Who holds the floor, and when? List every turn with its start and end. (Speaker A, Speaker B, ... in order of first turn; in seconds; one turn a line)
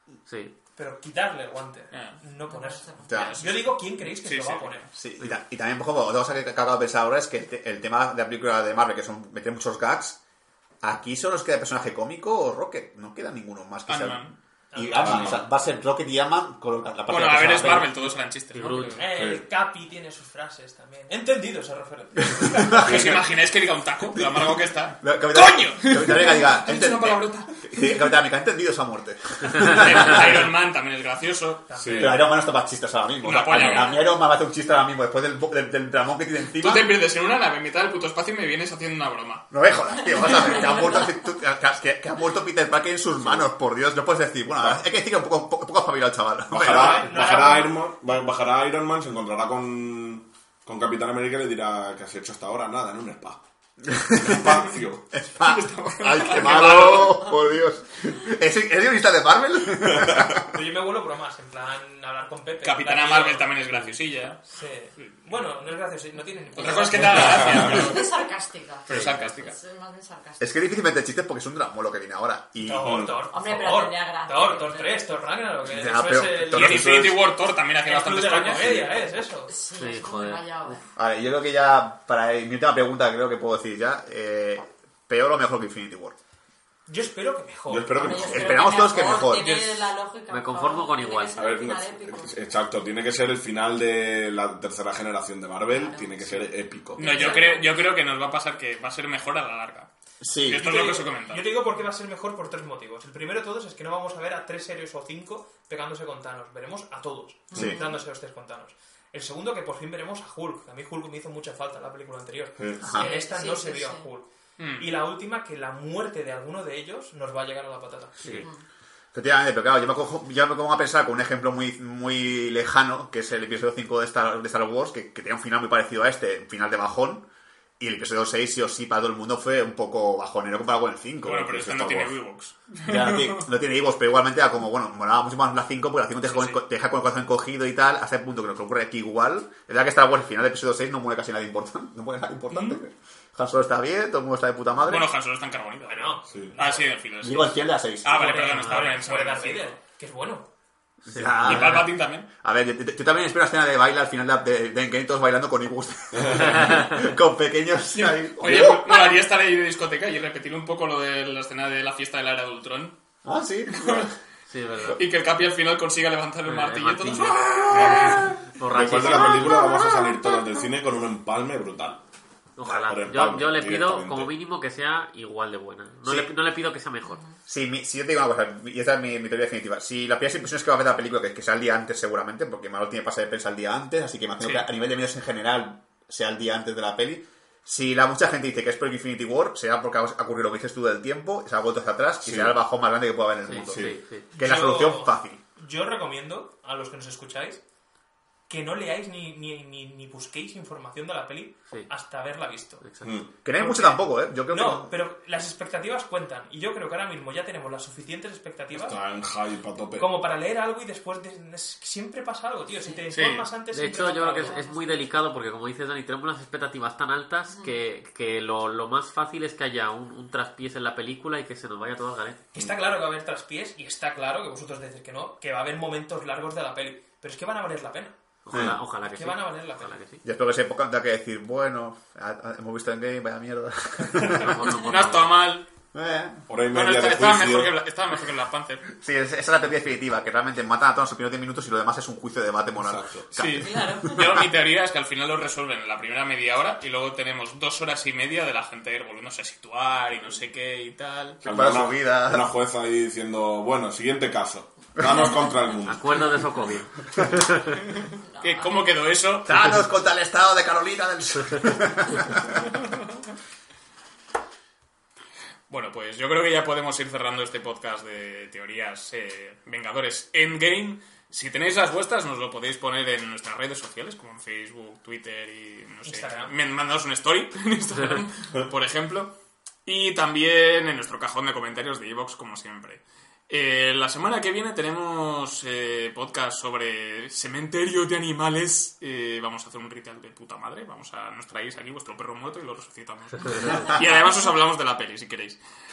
Speaker A: 0.3-0.5
Speaker B: 0.8-4.9
Speaker C: 1.9-2.2
Speaker D: 2.5-3.1
Speaker E: 3.1-3.4
Speaker C: 3.1-4.9
Speaker E: 5.0-10.2
Speaker E: 10.8-17.9
Speaker C: 13.9-14.3
Speaker B: 14.7-15.4
Speaker F: 15.0-15.4
Speaker C: 17.1-19.1
Speaker A: 18.5-19.0
Speaker B: 19.0-22.9
Speaker F: 19.1-19.4
Speaker E: 22.3-23.2
Speaker C: 22.5-27.9
Speaker E: 24.1-30.5
Speaker C: 29.5-31.7
Speaker B: 31.7-32.3
Speaker F: 31.8-32.2
Speaker E: 32.0-36.9
Speaker C: 33.2-34.1
Speaker C: 36.6-39.5
Speaker E: 39.5-47.1
Speaker F: 43.2-43.5
Speaker F: 46.5-53.4
Speaker B: 46.6-47.8
Speaker E: 53.9-60.5
Speaker F: 54.1-55.0
Speaker C: 55.4-57.4
Speaker F: 59.8-60.5
Speaker B: 60.5-63.6
Speaker C: 62.6-64.4
Speaker B: 64.5-67.7
Speaker C: 65.0-65.4
Speaker C: 66.5-68.1
Speaker F: 67.0-67.9
Speaker D: 67.7-70.7
Speaker C: 68.9-69.6
Speaker E: 68.9-69.2
Speaker F: 68.9-69.3
Speaker E: 70.4-73.1
Speaker B: 72.6-77.0
Speaker F: 72.8-73.1
Speaker D: 73.3-75.2
Speaker E: 75.7-77.2
Speaker C: 76.3-78.9
Speaker B: 77.8-79.5
Speaker D: 79.5-80.8
Speaker A: 79.7-80.8
Speaker E: 81.0-86.2
Speaker B: 86.9-88.2
Speaker F: 87.7-88.9
Speaker D: 88.0-92.3
Speaker E: 88.2-89.9
Speaker A: 90.3-91.4
Speaker F: 91.3-97.1
Speaker D: 95.7-96.3
Speaker D: 97.0-98.0
Speaker C: 97.0-99.9
Speaker E: 100.2-100.7
Speaker C: 100.4-101.6
Speaker B: 100.5-118.4
Speaker D: 107.6-107.9
Speaker F: 112.6-113.0
Speaker E: 112.8-113.1
Speaker D: 113.0-114.1
Speaker C: 114.6-114.9
Speaker E: 119.1-127.2
Speaker E: 127.8-131.6
Speaker C: 131.2-133.5
Speaker F: 131.5-132.2
Speaker E: 132.8-145.1
Speaker C: 136.2-136.6
Speaker C: 142.5-142.8
Speaker C: 144.8-149.8
Speaker B: 145.8-146.8
Speaker F: 146.3-146.6
Speaker E: 147.2-148.5
Speaker B: 148.1-150.5
Speaker E: 151.1-159.0
Speaker A: 151.1-151.9
Speaker C: 151.4-152.3
Speaker F: 156.2-156.7
Speaker C: 157.9-163.0
Speaker E: 163.2-164.1
Speaker C: 163.7-164.1
Speaker A: 164.5-165.0
Speaker C: 164.9-168.3
Speaker A: 166.5-169.6
Speaker F: 167.7-172.0
Speaker D: 169.0-170.6
Speaker A: 172.6-177.2
Speaker F: 172.7-174.3
Speaker E: 176.1-176.3
Speaker D: 177.1-177.3
Speaker E: 177.5-195.4
Speaker C: 184.4-184.7
Speaker F: 192.2-192.6
Speaker A: 193.4-194.3
Speaker F: 193.7-194.0
Speaker B: 194.3-197.6
Speaker B: 198.5-202.8
Speaker A: 202.8-203.2
Speaker F: 203.0-203.4
Speaker E: 203.4-204.9
Speaker B: 203.5-209.0
Speaker F: 208.7-210.2
Speaker B: 210.0-214.7
Speaker D: 212.8-213.1
Speaker C: 213.1-213.5
Speaker A: 213.7-222.4
Speaker D: 214.4-215.0
Speaker D: 217.5-217.8
Speaker B: 222.5-228.2
Speaker A: 228.4-230.2
Speaker F: 228.5-228.8
Speaker B: 229.0-230.0
Speaker E: 230.2-234.6
Speaker A: 234.2-235.3
Speaker C: 234.7-235.7
Speaker E: 235.9-236.5
Speaker F: 236.5-237.8
Speaker C: 236.7-238.8
Speaker E: 238.9-244.5
Speaker F: 242.8-243.3
Speaker C: 243.3-251.4
Speaker D: 243.6-244.4
Speaker F: 251.4-256.3
Speaker E: 251.4-252.5
Speaker E: 255.0-255.3
Speaker A: 255.9-257.8
Speaker C: 257.9-259.5
Speaker D: 258.4-258.7
Speaker E: 259.5-262.6
Speaker C: 265.7-279.3
Speaker B: 276.0-276.6
Speaker C: 279.9-295.6